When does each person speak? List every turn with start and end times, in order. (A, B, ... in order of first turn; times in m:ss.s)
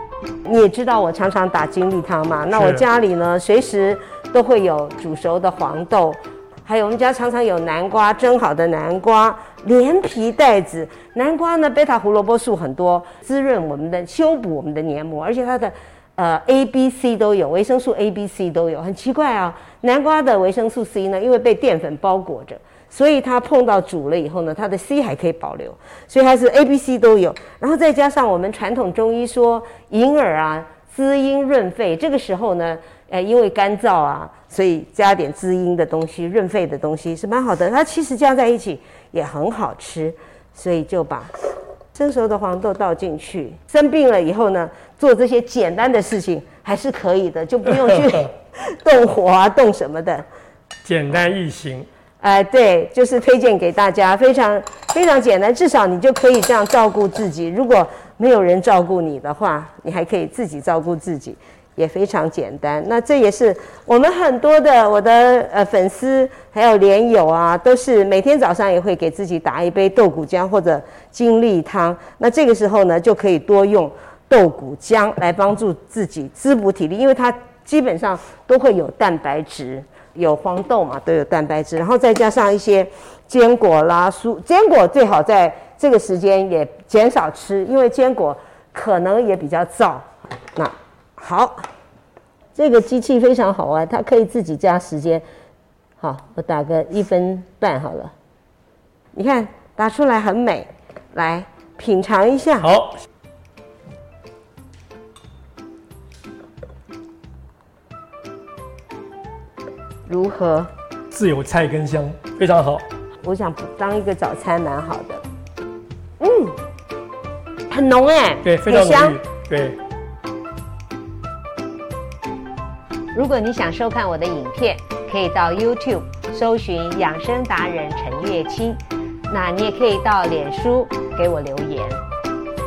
0:00.4-0:41.3 A
0:41.9-0:50.3 A
0:50.8-0:51.9 B
0:52.2-1:31.7 A
1:32.6-1:35.2 A
1:36.0-1:38.1 A
1:39.1-1:42.7 A
1:42.6-1:43.0 B
1:50.1-1:50.7 A
1:51.1-1:52.8 B
1:53.2-1:55.2 A
1:56.2-1:56.6 A
1:57.7-1:59.2 A
1:58.4-1:59.8 B
2:03.1-2:12.0 A